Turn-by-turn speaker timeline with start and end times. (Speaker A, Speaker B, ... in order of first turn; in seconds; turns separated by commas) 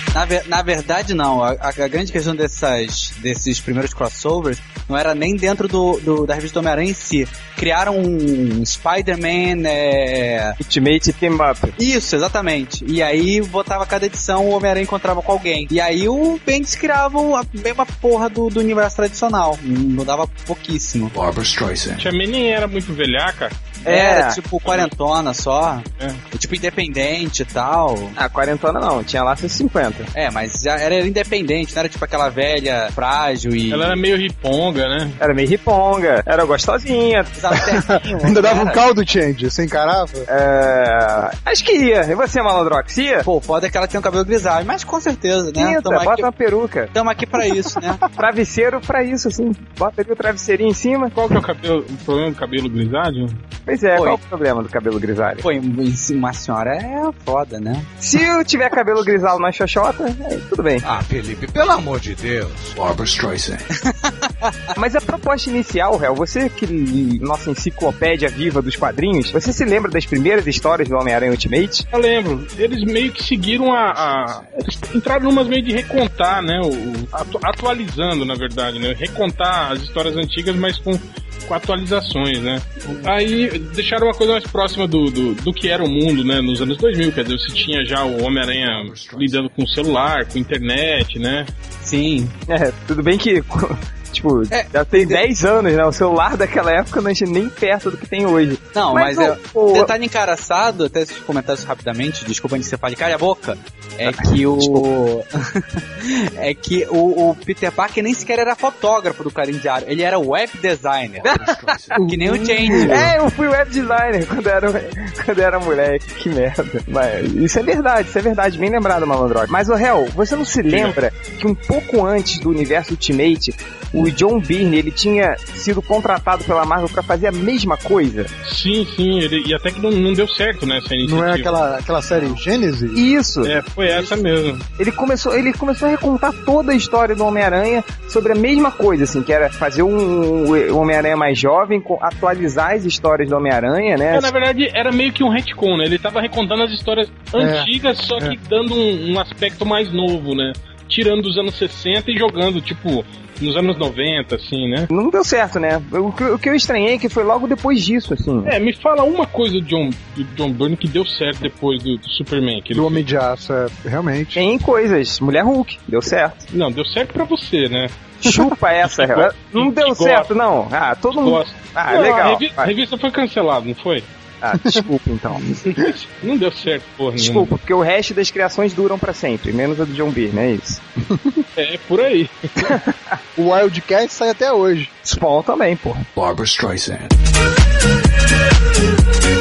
Speaker A: 0.1-10.6, Speaker B: 10.6-11.8, Speaker A: 11.8-21.1, Speaker C: 21.1-22.1, Speaker D: 22.0-23.6, Speaker A: 23.8-28.2, Speaker B: 23.9-24.4, Speaker D: 24.6-24.9, Speaker B: 28.2-30.1, Speaker A: 30.1-34.0, Speaker D: 33.7-35.2, Speaker B: 35.2-37.3, Speaker A: 37.4-38.8, Speaker E: 37.6-40.3, Speaker B: 40.3-43.3, Speaker A: 43.2-46.3, Speaker B: 45.5-46.9, Speaker A: 46.9-48.0, Speaker B: 48.1-51.1, Speaker D: 51.1-53.4, Speaker B: 53.7-55.5, Speaker A: 53.9-54.2, Speaker A: 55.4-57.9, Speaker B: 58.0-60.9, Speaker F: 60.8-62.8, Speaker C: 62.8-63.7, Speaker A: 64.0-64.5, Speaker B: 64.8-71.8, Speaker D: 71.9-91.5, Speaker C: 73.7-74.4, Speaker C: 88.6-89.5, Speaker A: 91.8-92.3, Speaker B: 92.5-99.9, Speaker A: 94.5-95.2, Speaker A: 98.8-111.4, Speaker B: 104.1-104.8, Speaker C: 111.2-112.0, Speaker B: 111.2-112.0, Speaker A: 112.0-113.1, Speaker E: 112.0-113.1, Speaker B: 112.7-128.3, Speaker D: 120.7-121.0, Speaker D: 128.4-131.6, Speaker E: 131.0-133.0, Speaker A: 132.1-132.4, Speaker B: 132.9-133.5, Speaker D: 133.4-134.6, Speaker B: 134.8-144.3, Speaker D: 144.1-154.9, Speaker E: 147.4-148.4, Speaker B: 154.9-158.6, Speaker D: 158.4-163.1, Speaker E: 162.7-164.4, Speaker B: 164.3-166.5, Speaker D: 166.5-167.9, Speaker B: 168.2-172.7, Speaker D: 168.8-170.3, Speaker D: 171.1-174.1, Speaker B: 174.4-175.9, Speaker D: 175.6-177.5, Speaker B: 177.2-180.8, Speaker D: 181.6-182.3, Speaker B: 182.6-183.2, Speaker E: 183.4-184.9, Speaker B: 185.0-186.1, Speaker C: 186.2-187.1